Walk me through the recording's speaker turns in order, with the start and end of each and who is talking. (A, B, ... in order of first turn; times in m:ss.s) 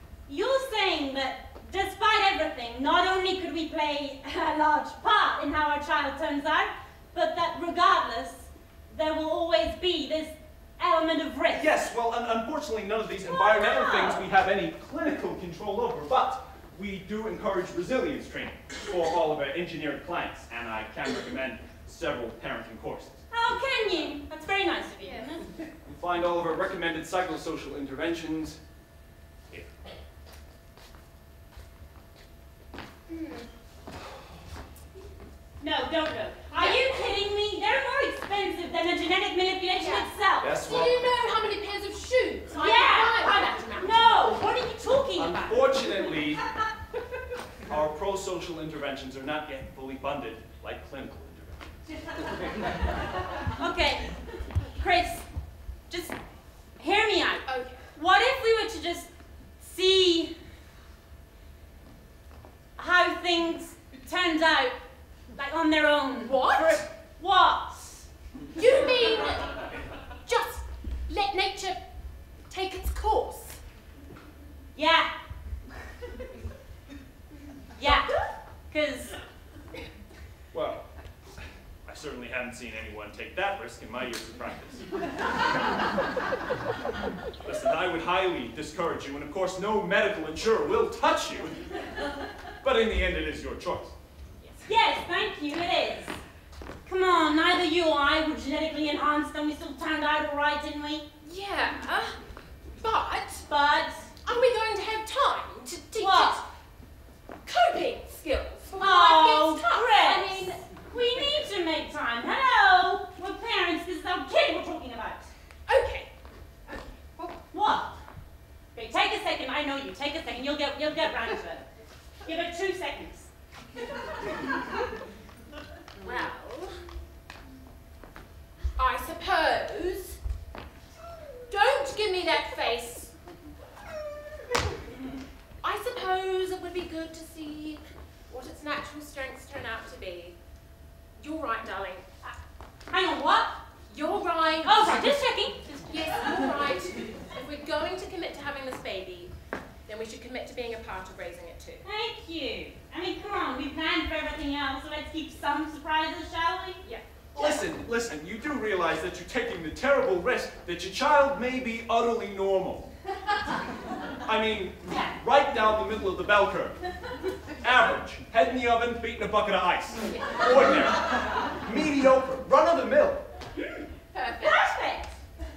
0:00.3-0:11.7 A
0:11.5-0:23.2 B
0:13.3-0:14.2 A
0:23.3-0:25.4 A
0:25.0-0:25.4 C
0:25.8-0:28.6 B
0:33.1-0:33.5 C
0:35.6-0:40.6 A
0:36.5-0:37.0 C
0:39.8-0:40.1 C
0:40.4-0:41.1 B
0:40.6-0:44.0 C
0:42.5-0:46.2 A
0:45.2-0:46.4 B
0:47.7-0:51.7 B
0:53.5-0:54.1 A
0:54.7-0:55.3 A
0:55.9-0:56.2 A
0:56.8-0:59.1 A
0:57.5-0:57.8 C
0:59.6-1:00.4 A
1:02.8-1:04.8 A
1:05.3-1:08.1 A
1:06.2-1:06.8 C
1:08.6-1:09.7 C
1:10.2-1:11.8 C
1:12.5-1:13.6 C
1:14.8-1:15.1 A
1:17.8-1:18.2 A
1:18.7-1:19.2 A
1:20.5-1:20.9 B
1:21.8-1:24.9 B
1:27.4-1:31.8 B
1:32.6-1:33.9 B
1:34.4-1:34.7 C
1:34.7-1:36.2 A
1:36.9-1:41.0 A
1:41.2-1:42.2 C
1:42.8-1:43.5 C
1:43.5-1:44.1 A
1:44.2-1:46.4 C
1:46.0-1:46.4 A
1:47.4-1:50.6 C
1:48.8-1:55.3 A
1:55.7-1:56.1 C
1:57.5-1:58.0 A
1:58.7-2:01.7 A
2:02.2-2:03.3 A
2:06.0-2:06.8 C
2:08.8-2:10.2 C
2:11.5-2:13.1 C
2:15.6-2:20.4 C
2:21.2-2:22.1 C
2:22.9-2:23.6 A
2:23.9-2:25.2 C
2:24.6-2:26.5 A
2:25.8-2:29.3 C
2:29.9-2:31.8 C
2:31.8-2:36.8 A
2:37.3-2:42.9 B
2:44.2-2:46.8 B
2:44.9-2:45.2 A
2:47.6-2:53.2 B
2:50.1-2:50.6 C
2:54.1-2:54.7 C
2:54.4-2:55.2 A